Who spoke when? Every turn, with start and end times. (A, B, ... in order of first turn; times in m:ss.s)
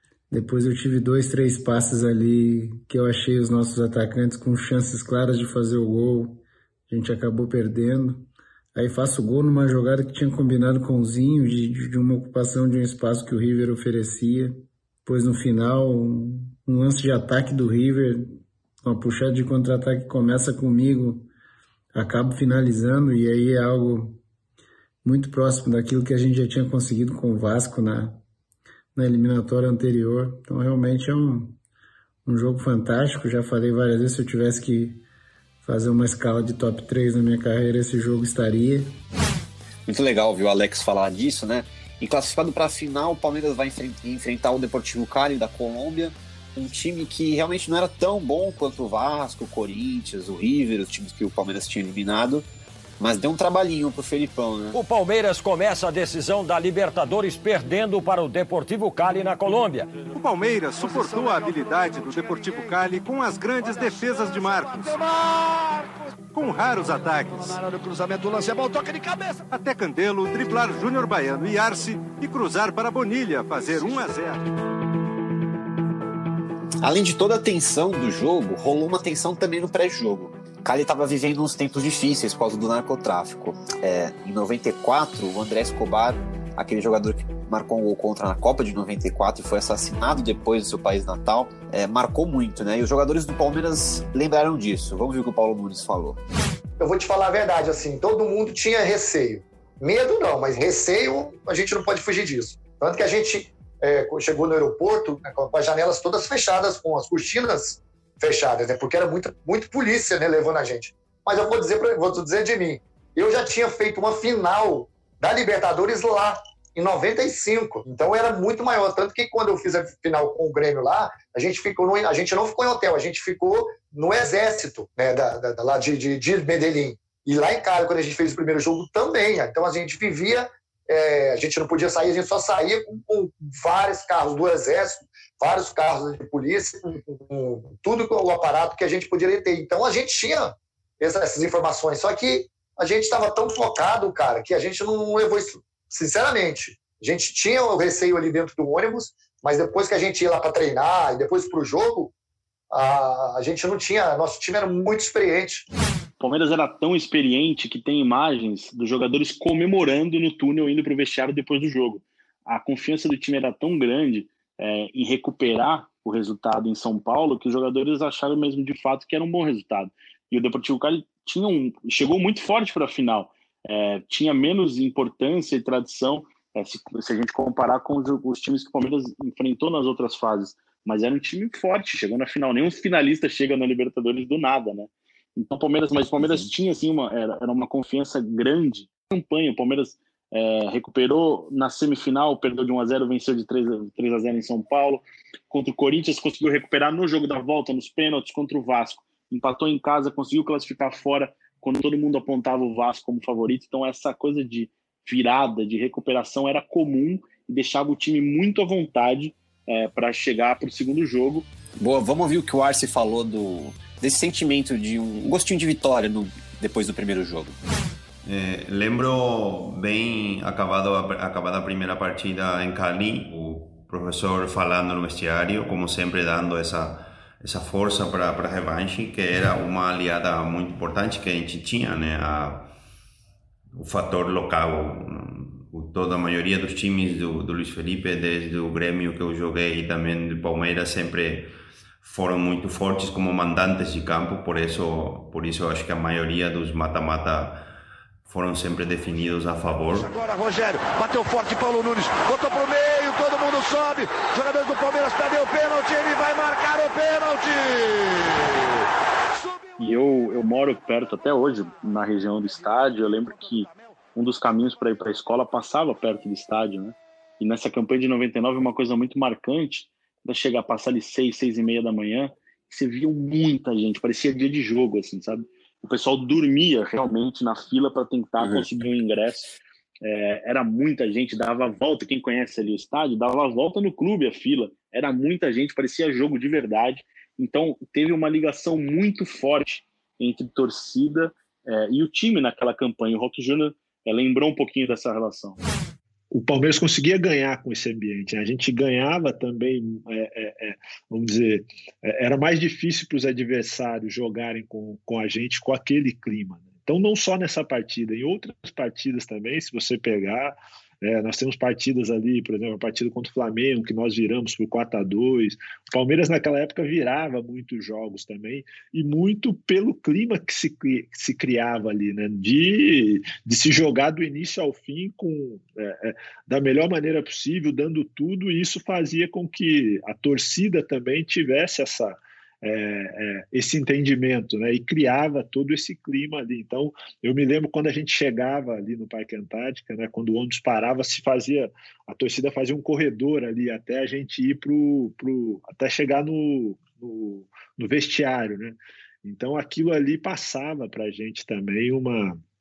0:00.3-0:21.3 A
0:21.9-0:24.2 A
0:25.0-0:28.2 A
0:28.9-0:31.6 A
0:32.2-0:35.0 A
0:35.6-0:39.0 A
0:39.8-0:52.5 B
0:53.0-0:54.8 B
0:54.7-0:59.9 C
1:00.0-1:05.0 D
1:00.8-1:01.4 E
1:04.3-1:06.0 E
1:06.3-1:07.6 D
1:07.2-1:09.5 E
1:09.5-1:14.4 D
1:16.8-1:36.2 B
1:36.8-2:32.1 F
2:32.7-2:35.7 F
2:36.2-3:31.5 G
3:06.2-3:06.5 B
3:31.8-3:37.6 B
3:38.2-3:52.7 H
3:53.7-4:01.5 H
4:02.0-4:07.7 H
4:08.3-4:10.1 H
4:09.9-4:18.8 E
4:19.8-4:55.6 G
4:38.4-4:38.7 B
4:56.3-5:52.4 I